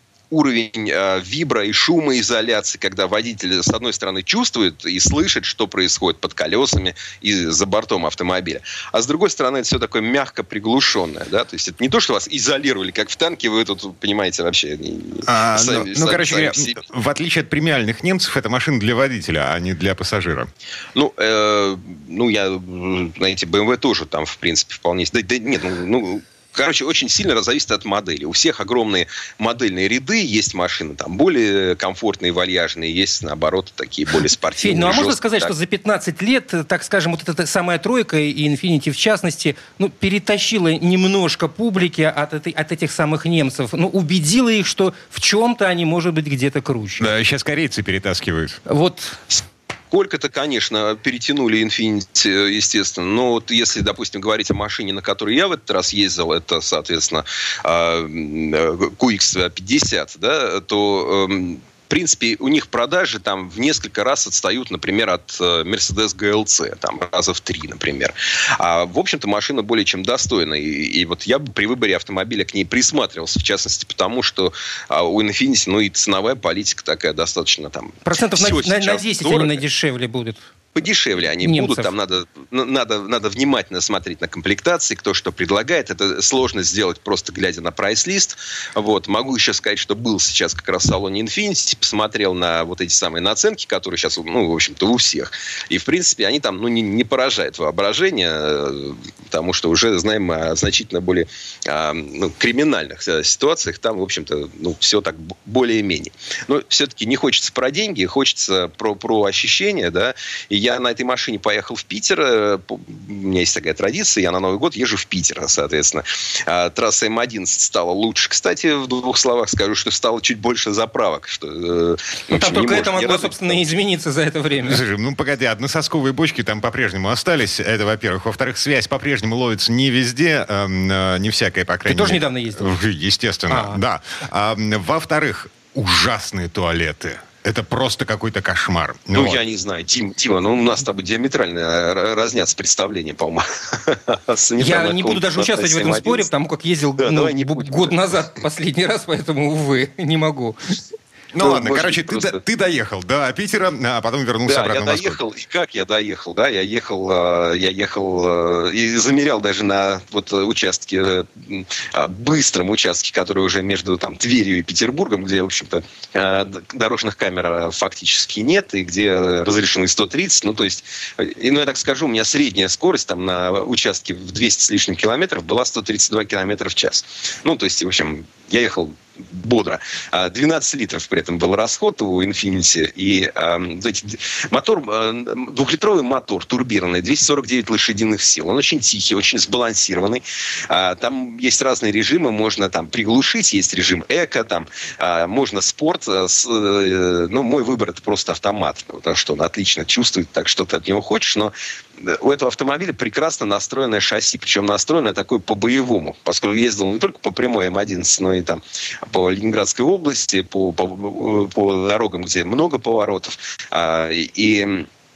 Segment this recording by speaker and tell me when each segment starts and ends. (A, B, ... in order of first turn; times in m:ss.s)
0:00.3-0:16.8 A
0:15.2-0:20.5 B
0:20.9-0:35.5 A
0:34.6-0:47.1 C
0:47.0-0:48.6 B
0:48.7-0:49.2 C
0:49.3-1:19.6 A
1:18.0-1:20.4 C
1:20.7-2:03.7 A
1:21.4-1:21.9 C
2:02.3-2:04.8 C
2:04.6-2:19.4 B
2:11.8-2:12.7 C
2:13.5-2:13.8 C
2:19.1-2:26.3 A
2:24.6-2:30.6 C
2:27.0-2:28.0 A
2:31.3-2:35.2 B
2:31.4-2:32.4 A
2:34.5-3:34.9 A